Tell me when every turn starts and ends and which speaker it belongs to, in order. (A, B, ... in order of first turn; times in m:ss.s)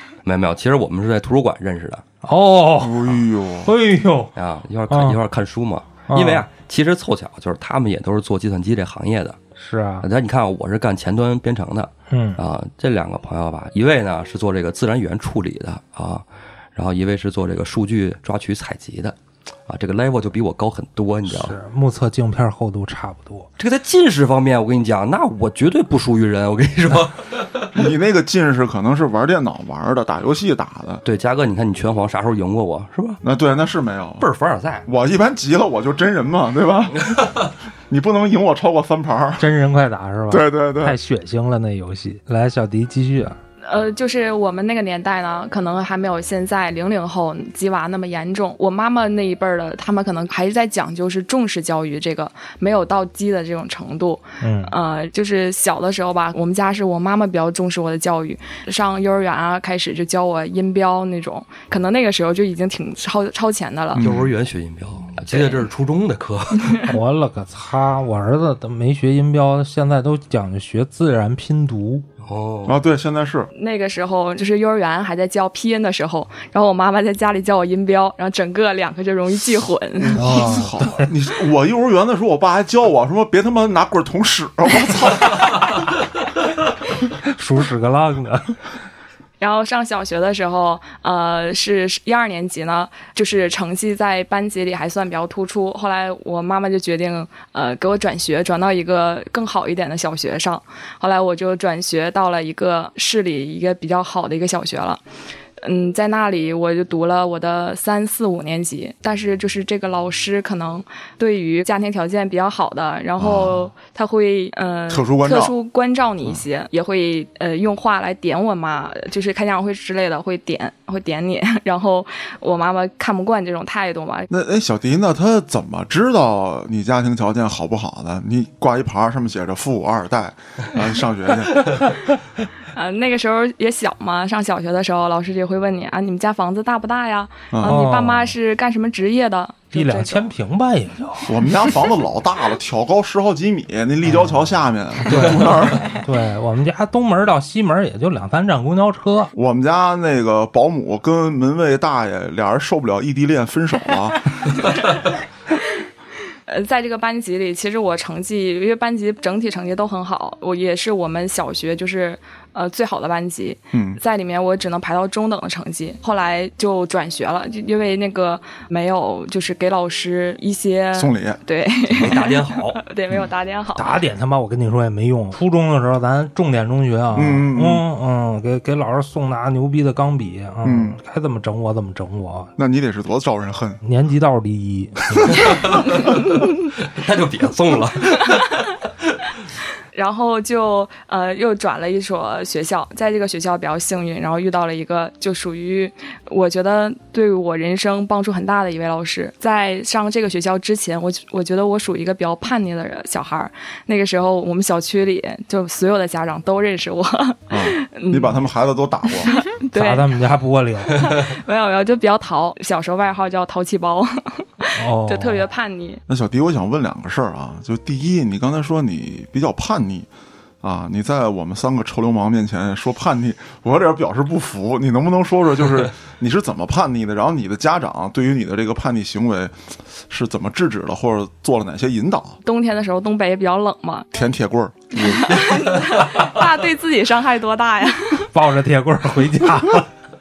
0:00.2-0:02.0 A
0:02.2-0:03.1 B
0:02.8-0:03.7 C
0:03.6-0:04.3 B
0:04.4-0:09.4 A
0:04.9-0:05.2 B
0:06.1-0:06.4 B
0:09.6-0:10.1 B
0:10.0-0:19.2 A
0:12.1-0:12.4 B
0:19.7-0:21.6 A
0:21.3-0:23.5 B
0:23.6-0:27.7 A
0:27.7-0:31.0 C
0:31.0-0:33.2 A
0:33.2-0:34.3 C
0:34.2-0:34.9 A
0:34.9-0:37.3 C
0:37.9-0:39.5 C
0:39.4-0:43.4 B
0:40.3-0:41.0 C
0:43.6-1:04.0 D
0:54.4-0:54.7 B
1:03.9-1:04.3 C
1:04.0-1:06.8 A
1:06.9-1:12.0 B
1:12.2-1:12.8 A
1:12.7-1:13.5 C
1:13.5-1:20.4 D
1:20.0-1:25.6 C
1:20.2-1:21.1 B
1:27.1-1:28.6 B
1:29.4-1:45.0 D
1:45.6-2:04.3 D
1:53.2-1:53.7 C
1:54.9-1:55.5 C
2:04.3-2:11.8 C
2:12.7-2:20.3 D
2:17.5-2:17.8 C
2:17.6-2:18.4 B
2:19.7-2:21.3 B
2:21.2-2:26.0 C
2:24.0-2:24.5 B
2:25.1-2:29.3 B
2:29.3-2:34.4 C
2:36.5-2:54.0 D
2:43.7-2:44.0 C
2:50.9-2:51.4 C
2:51.9-2:52.8 A
2:53.8-3:02.5 B
2:57.1-2:57.9 C
3:00.6-3:01.0 C
3:02.6-3:03.8 C
3:03.8-3:05.6 B
3:05.4-3:09.1 A
3:09.9-3:28.4 D
3:27.5-3:29.3 C
3:29.2-3:30.2 D
3:29.8-3:31.2 B
3:30.9-3:36.0 D
3:34.8-3:35.4 B
3:36.1-3:40.1 C
3:40.6-3:49.5 C
3:50.1-3:52.4 C
3:52.4-3:54.1 D
3:54.1-3:55.2 C
3:55.0-3:58.3 D
3:55.1-3:56.3 A
3:58.3-3:59.9 B